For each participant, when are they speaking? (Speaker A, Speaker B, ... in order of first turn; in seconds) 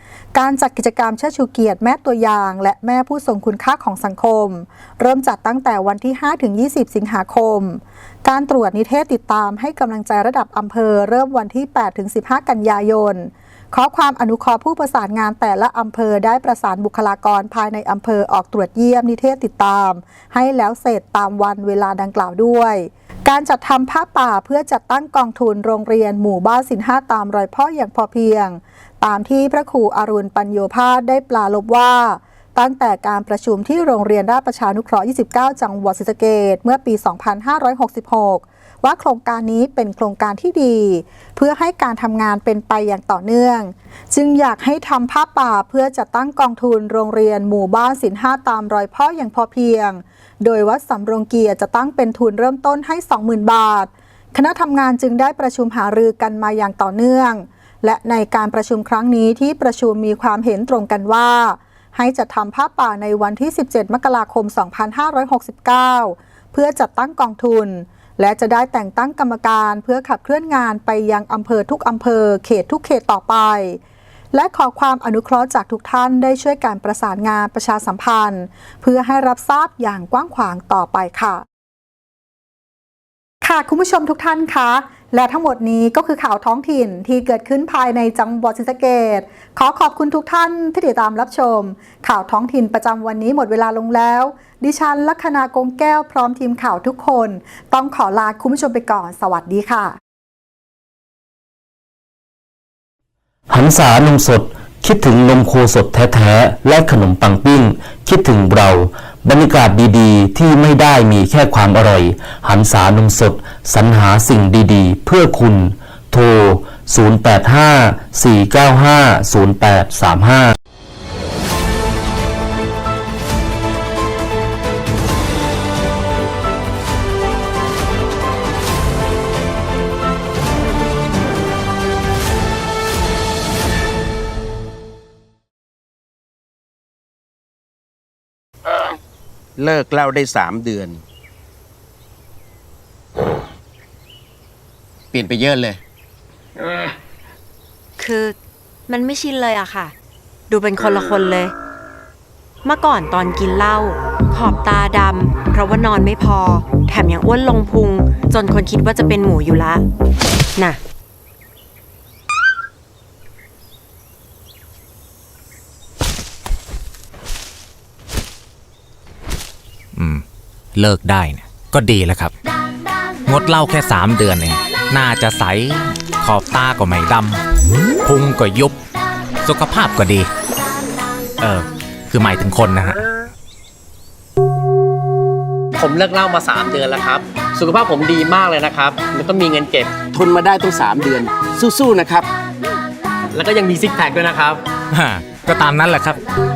Speaker A: 0.3-73.8, 74.3-81.4, 83.4-100.0
Speaker B: 103.5-120.5
Speaker C: 139.6-141.0, 145.1-145.8, 191.7-192.1
Speaker D: 148.0-148.3, 148.9-149.9, 150.5-151.5, 152.6-159.8
Speaker E: 169.9-170.2, 170.7-172.3, 173.2-177.4, 178.0-178.7, 179.4-180.3, 181.4-183.0, 194.9-196.2
Speaker F: 185.7-190.0, 193.3-194.6